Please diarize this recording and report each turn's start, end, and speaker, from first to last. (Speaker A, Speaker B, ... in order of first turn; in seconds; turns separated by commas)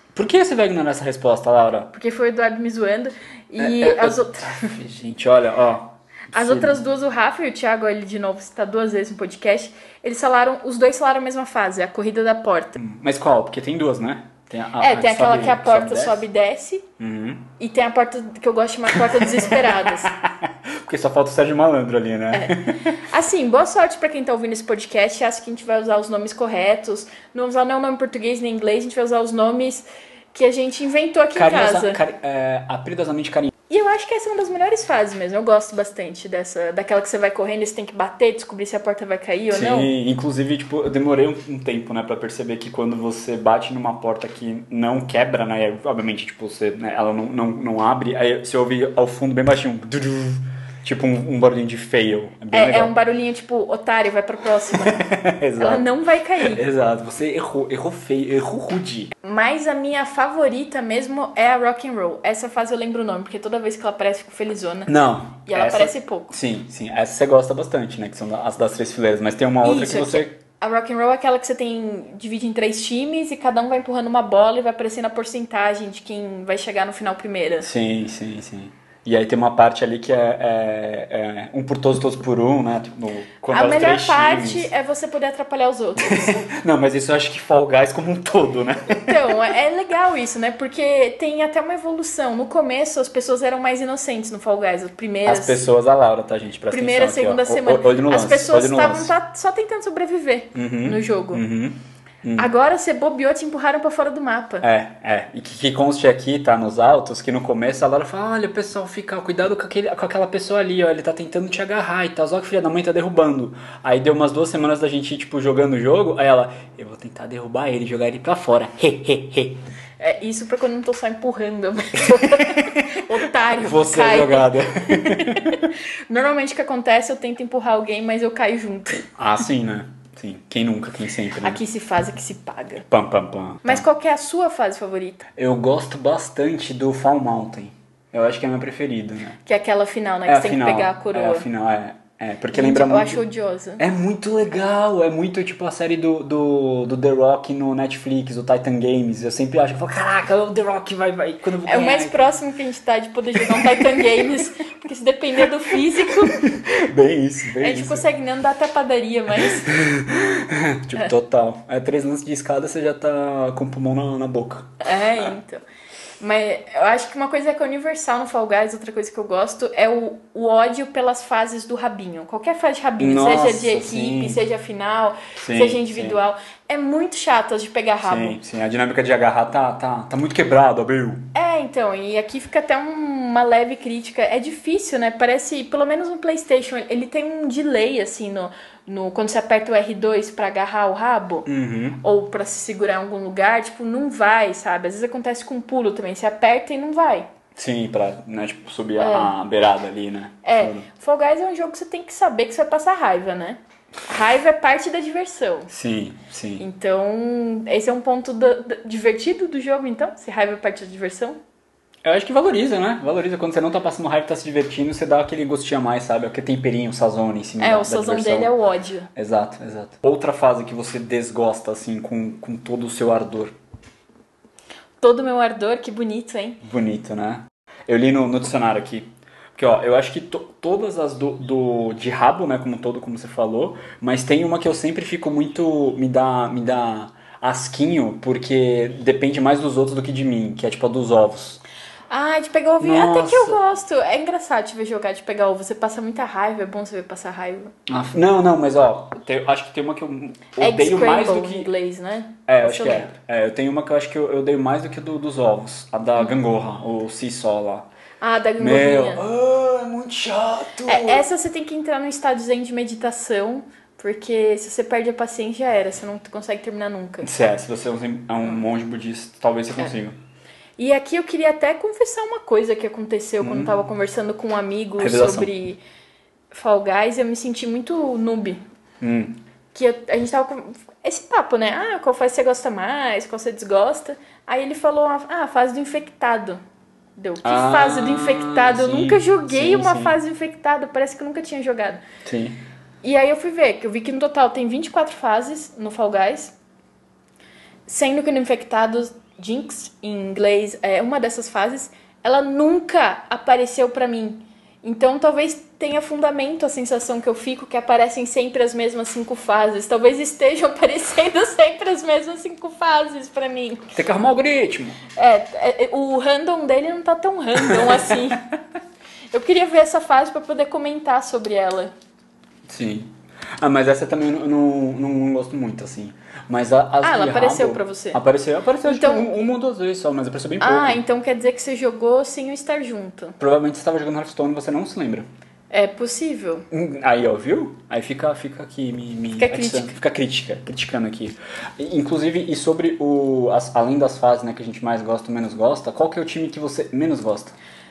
Speaker A: 0.1-1.9, Speaker B: 1.9-4.7, Speaker A: 3.6-6.8, Speaker B: 6.3-12.8, Speaker A: 12.8-16.2, Speaker B: 14.8-16.9, Speaker A: 17.0-17.5, Speaker B: 17.6-20.1, Speaker A: 19.0-22.9, Speaker B: 22.3-32.0, Speaker A: 31.3-33.5, Speaker B: 33.7-39.9, Speaker A: 39.5-52.9, Speaker B: 52.5-55.0, Speaker A: 54.8-55.9, Speaker B: 55.6-56.6, Speaker A: 56.4-59.1, Speaker B: 59.2-64.9, Speaker A: 64.9-70.3, Speaker B: 65.5-66.3, Speaker B: 69.6-77.7, Speaker A: 77.6-84.7, Speaker B: 83.5-86.4, Speaker A: 86.0-89.3, Speaker B: 89.0-95.6, Speaker A: 95.2-99.1, Speaker B: 96.7-101.4, Speaker A: 100.5-102.5, Speaker B: 102.3-104.7, Speaker A: 104.6-119.6, Speaker B: 120.0-129.1, Speaker A: 122.2-122.8, Speaker A: 123.6-125.6, Speaker A: 129.2-131.6, Speaker B: 131.4-132.9, Speaker A: 132.9-133.8, Speaker B: 133.6-135.2, Speaker A: 135.4-139.4, Speaker B: 139.4-141.4, Speaker A: 140.2-143.2, Speaker B: 142.5-143.8, Speaker A: 143.8-152.3, Speaker B: 151.7-156.4, Speaker A: 153.4-154.3, Speaker A: 156.2-158.0, Speaker B: 157.6-159.7, Speaker A: 159.6-165.2, Speaker B: 164.8-165.6, Speaker B: 166.2-178.4, Speaker A: 173.0-174.4, Speaker A: 175.4-176.2, Speaker A: 178.0-181.2, Speaker B: 181.3-191.5, Speaker A: 191.4-192.0, Speaker B: 192.0-197.3, Speaker A: 197.6-200.9, Speaker B: 199.0-199.3, Speaker B: 200.4-205.7, Speaker A: 205.7-206.6, Speaker B: 206.6-211.4, Speaker A: 212.0-218.5, Speaker B: 217.6-219.1, Speaker A: 219.2-223.5, Speaker B: 225.0-226.6, Speaker A: 226.6-241.6, Speaker B: 242.1-247.7, Speaker A: 242.8-243.6, Speaker A: 247.9-251.7, Speaker B: 250.6-253.1, Speaker A: 252.5-257.9, Speaker B: 258.2-259.2, Speaker A: 258.6-261.2, Speaker B: 260.9-267.3, Speaker A: 267.2-270.1, Speaker B: 270.8-275.8, Speaker A: 273.4-273.8, Speaker A: 275.0-275.5, Speaker B: 276.5-278.6, Speaker A: 279.0-279.4, Speaker B: 279.7-286.6, Speaker B: 287.2-292.0, Speaker A: 287.4-290.2, Speaker A: 292.2-292.6, Speaker B: 293.0-296.5, Speaker B: 297.9-313.9, Speaker A: 313.9-315.0, Speaker B: 315.1-318.5, Speaker B: 319.3-321.9, Speaker A: 322.7-331.0, Speaker B: 327.0-328.2, Speaker B: 328.8-329.3, Speaker B: 330.6-333.4, Speaker A: 333.4-335.2, Speaker B: 335.7-336.6, Speaker A: 336.7-347.5, Speaker B: 339.4-339.9